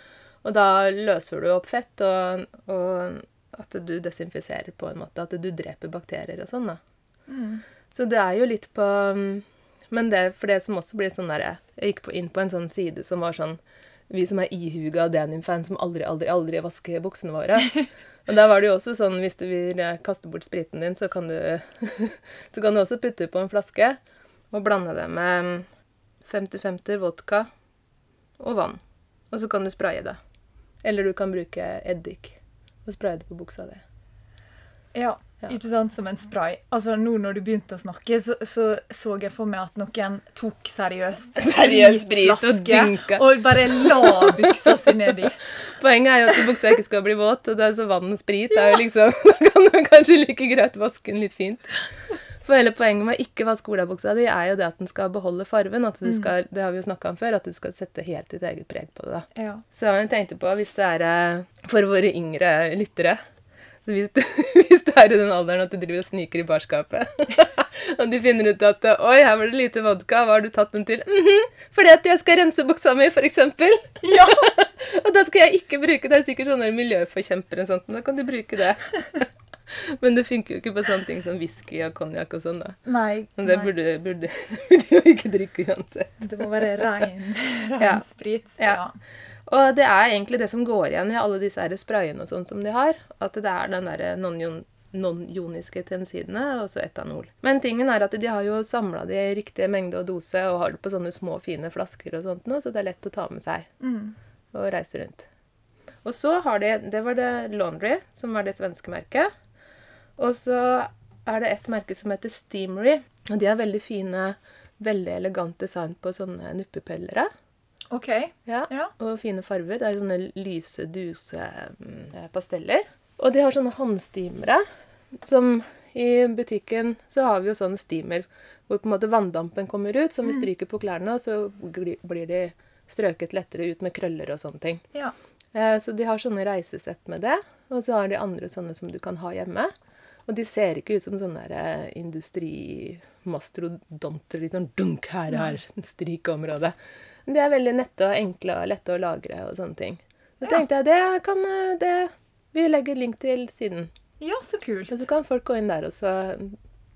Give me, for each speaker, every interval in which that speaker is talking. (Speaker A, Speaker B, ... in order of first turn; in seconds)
Speaker A: 0.4-6.8, 7.9-13.6, 14.1-24.0, 24.5-25.7, 26.2-27.5, 28.4-28.8, 29.3-30.2, 30.8-33.8, 41.4-44.7, 45.8-51.8, 52.4-63.2, 63.8-82.8, 83.4-86.9, 89.5-103.7, 104.5-105.3, 106.0-109.3, 110.2-117.3, 118.5-124.6, 125.2-134.8, 135.5-139.7, 140.3-146.7, 147.2-153.9, 154.9-156.6
Speaker B: 7.3-7.6, 34.9-45.4, 56.0-56.3, 59.3-59.6, 74.0-74.5, 82.8-83.7, 86.2-88.9, 103.8-104.2, 117.9-118.9, 145.3-145.6, 154.2-155.1